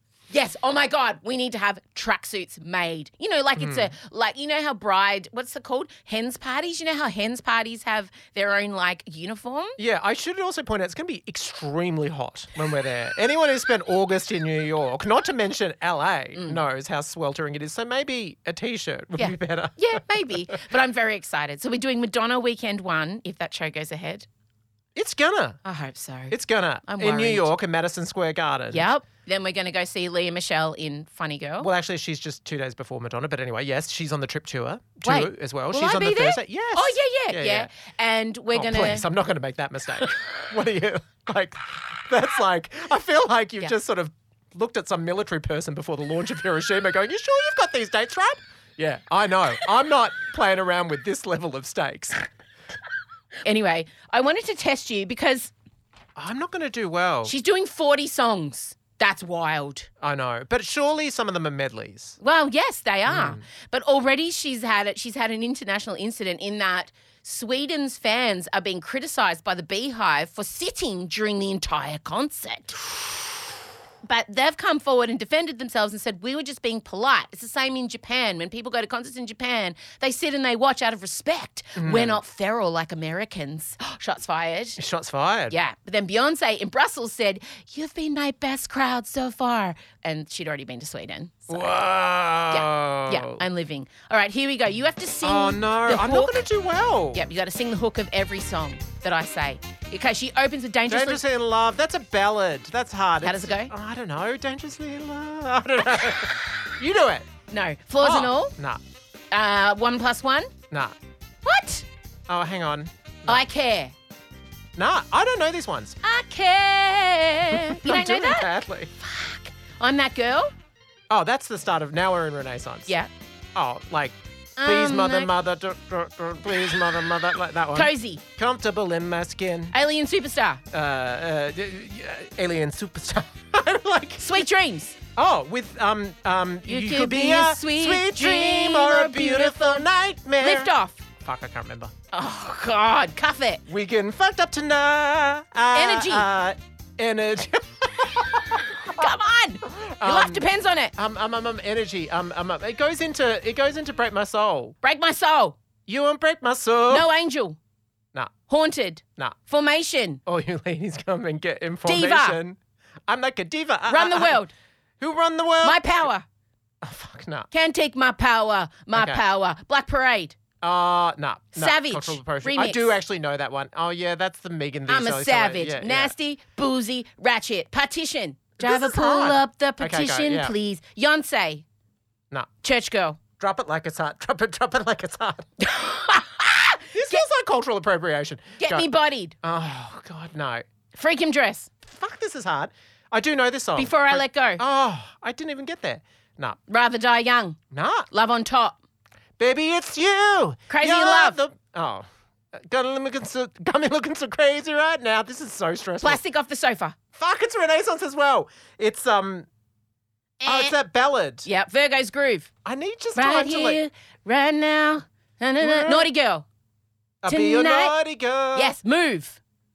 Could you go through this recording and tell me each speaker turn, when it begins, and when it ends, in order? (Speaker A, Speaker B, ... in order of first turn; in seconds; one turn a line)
Speaker A: 0.3-9.8
Speaker B: 3.6-3.9
Speaker B: 9.8-20.0
Speaker A: 19.2-24.3
Speaker B: 24.9-25.6
Speaker A: 25.6-27.5
Speaker B: 26.3-28.9
Speaker A: 28.7-31.7
Speaker B: 31.6-37.7
Speaker A: 35.0-39.0
Speaker B: 38.5-52.2
Speaker A: 53.4-55.5
Speaker B: 56.1-57.3
Speaker A: 57.2-59.9
Speaker B: 60.0-62.2
Speaker A: 62.2-72.8
Speaker B: 63.1-63.4
Speaker A: 74.0-84.8
Speaker B: 81.8-82.2
Speaker B: 84.8-85.5
Speaker A: 85.5-91.7
Speaker B: 91.5-93.4
Speaker A: 92.5-96.4
Speaker B: 95.2-97.2
Speaker A: 97.1-101.2
Speaker B: 100.9-107.3
Speaker A: 103.2-103.7
Speaker A: 107.5-108.5
Speaker B: 108.0-108.8
Speaker A: 109.3-110.5
Speaker B: 110.7-111.0
Speaker A: 111.4-111.8
Speaker B: 112.3-113.4
Speaker A: 113.2-113.9
Speaker B: 114.8-116.0
Speaker A: 116.0-120.5
Speaker B: 117.5-118.9
Speaker B: 121.1-122.9
Speaker B: 123.5-129.7
Speaker A: 124.6-125.3
Speaker A: 127.7-128.2
Speaker A: 129.7-130.6
Speaker B: 130.7-134.4
Speaker A: 134.2-135.0
Speaker B: 135.2-141.9
Speaker A: 136.7-139.8
Speaker A: 140.4-141.0
Speaker A: 142.1-143.6
Speaker B: 143.7-149.1
Speaker A: 145.7-146.2
Speaker A: 148.9-150.9
Speaker B: 149.7-150.4
Speaker B: 150.9-154.7
Speaker A: 154.8-155.6
Speaker B: 155.9-157.1
Speaker A: 156.9-157.6
Speaker A: 158.5-160.2
Speaker B: 160.2-162.6
Speaker A: 161.8-162.4
Speaker B: 163.1-164.4
Speaker A: 163.9-164.5
Speaker B: 165.0-165.9
Speaker A: 165.6-166.2
Speaker B: 166.8-167.5
Speaker A: 167.5-170.4
Speaker B: 168.9-169.2
Speaker B: 170.6-176.1
Speaker A: 171.5-173.0
Speaker A: 174.9-181.6
Speaker B: 178.6-180.5
Speaker A: 182.6-183.2
Speaker B: 183.4-185.5
Speaker A: 185.6-187.2
Speaker B: 186.9-188.9
Speaker A: 188.6-189.3
Speaker B: 189.4-190.6
Speaker A: 190.9-191.7
Speaker B: 191.8-196.6
Speaker A: 193.8-194.6
Speaker A: 196.7-197.6
Speaker B: 197.7-198.1
Speaker A: 198.1-198.8
Speaker B: 199.4-206.2
Speaker A: 200.7-201.4
Speaker A: 206.0-206.9
Speaker B: 207.1-209.5
Speaker A: 210.4-210.8
Speaker B: 210.4-211.5
Speaker A: 211.4-212.5
Speaker B: 212.6-213.8
Speaker A: 213.1-216.4
Speaker B: 215.6-216.1
Speaker B: 217.2-218.7
Speaker A: 217.3-217.9
Speaker A: 218.5-219.4